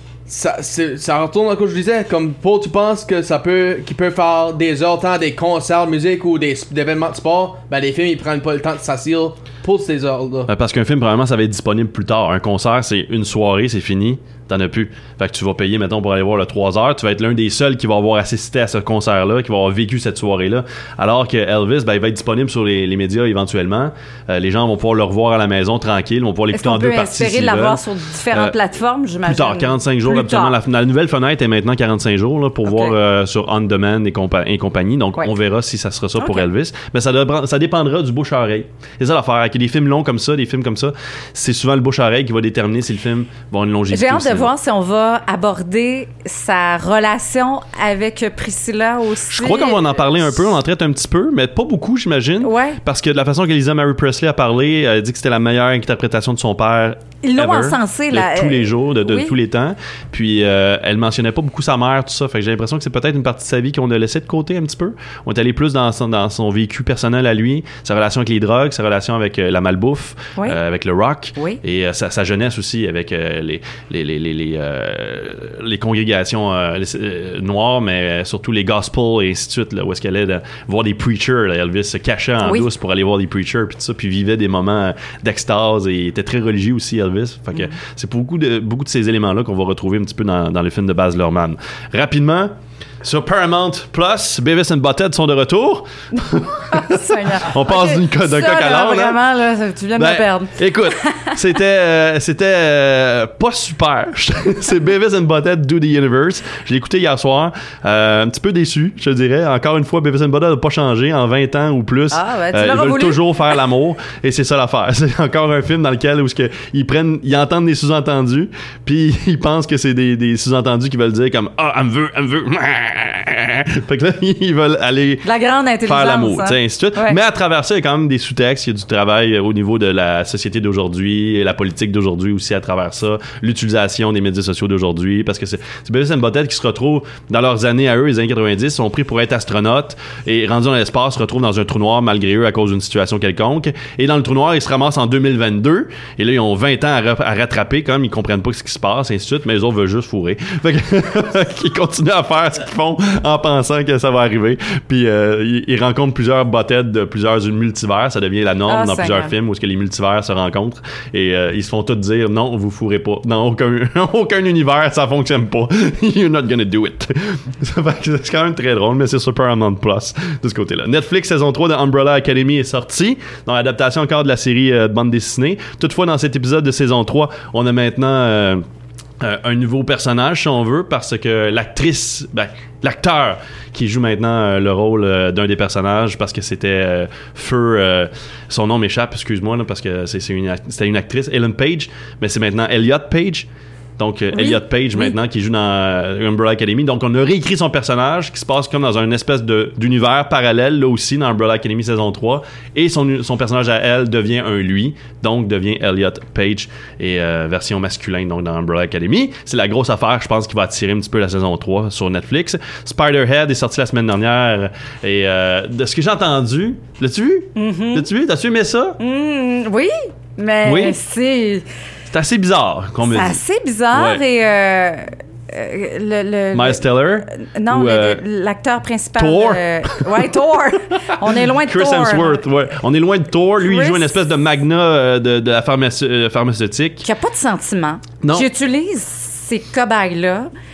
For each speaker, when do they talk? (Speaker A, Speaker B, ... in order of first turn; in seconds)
Speaker A: 0.3-10.5
Speaker B: 10.5-28.6, 29.2-44.5, 49.3-92.5, 93.0-99.2, 100.0-125.3, 125.8-178.6, 179.2-193.5, 194.0-219.0, 220.6-221.0, 222.1-223.4, 223.9-224.2, 226.5-228.2, 229.2-230.3, 231.2-237.1, 238.2-238.5
Speaker C: 26.5-30.6, 32.6-33.0, 36.2-36.5, 43.9-50.4, 52.4-52.8, 57.2-59.4, 82.4-82.7, 96.7-101.4, 112.1-113.6, 125.2-127.2, 158.7-159.3, 194.3-195.1, 217.6-218.1, 219.0-221.7, 223.0-232.4, 233.6-234.2, 237.0-240.5